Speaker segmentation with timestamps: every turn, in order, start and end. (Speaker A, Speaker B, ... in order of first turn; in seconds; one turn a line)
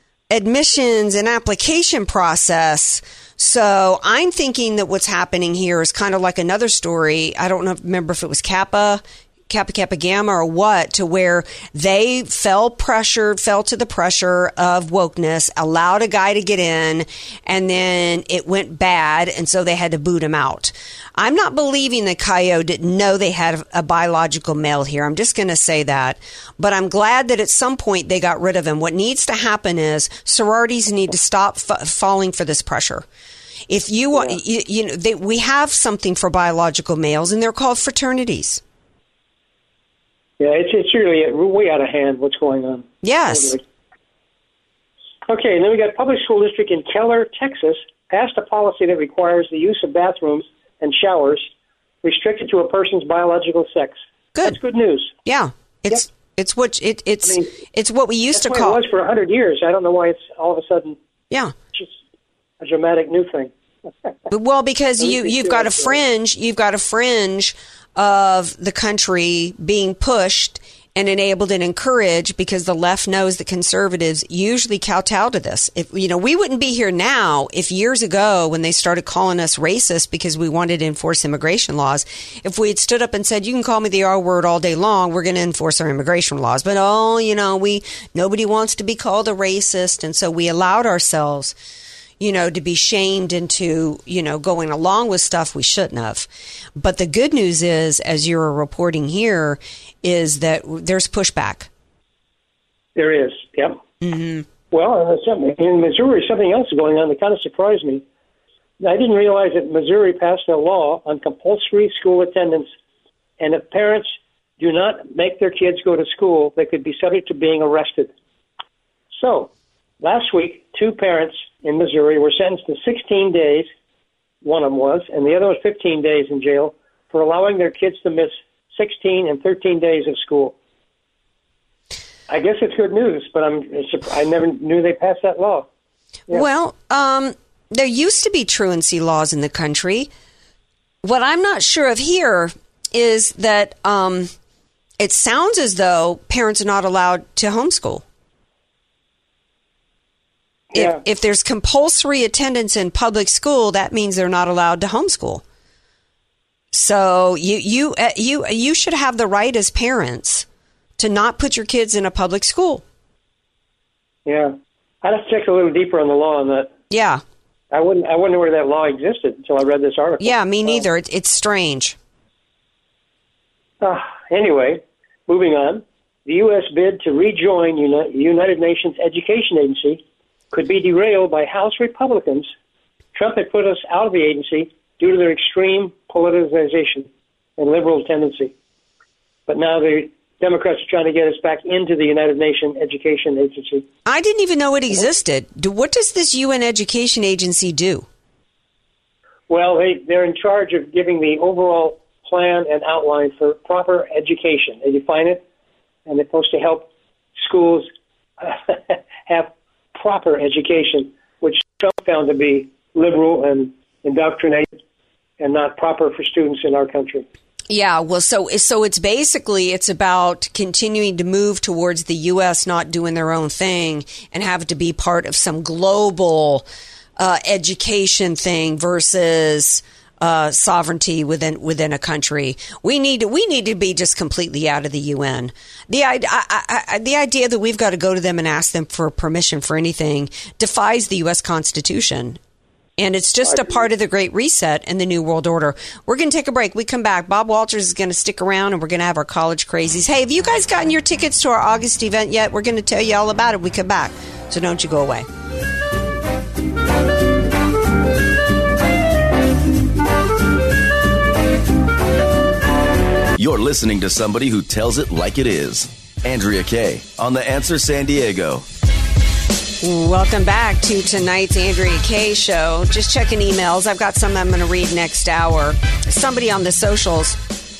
Speaker A: 0.3-33.0
Speaker A: 33.7-38.6
Speaker B: 40.4-43.6
Speaker A: 43.0-43.6
Speaker B: 45.3-51.5
Speaker B: 52.0-55.1
Speaker A: 55.2-58.8
Speaker B: 57.2-57.5
Speaker B: 58.3-61.0
Speaker B: 62.6-63.5
Speaker A: 64.3-91.5
Speaker B: 65.0-66.0
Speaker A: 92.2-101.7
Speaker B: 103.0-103.8
Speaker A: 104.0-104.5
Speaker B: 104.7-108.0
Speaker B: 108.8-112.7
Speaker B: 113.4-118.1
Speaker B: 119.1-123.7
Speaker B: 124.4-130.5
Speaker B: 132.3-135.7
Speaker A: 136.3-140.1
Speaker A: 141.0-144.3
Speaker A: 145.0-148.0
Speaker A: 150.7-155.4
Speaker A: 156.7-160.4
Speaker A: 161.0-162.8
Speaker B: 164.2-166.7
Speaker A: 166.9-167.2
Speaker B: 167.7-170.8
Speaker A: 170.2-171.9
Speaker B: 173.8-182.5
Speaker B: 183.1-187.1
Speaker B: 187.6-188.5
Speaker B: 189.5-193.8
Speaker A: 194.0-198.1
Speaker B: 199.5-205.4
Speaker B: 206.1-214.7
Speaker B: 215.4-217.2
Speaker A: 217.7-226.7
Speaker A: 227.2-242.4
Speaker A: 243.0-255.3
Speaker B: 243.4-243.8
Speaker C: 263.4-268.6
Speaker A: 269.8-277.4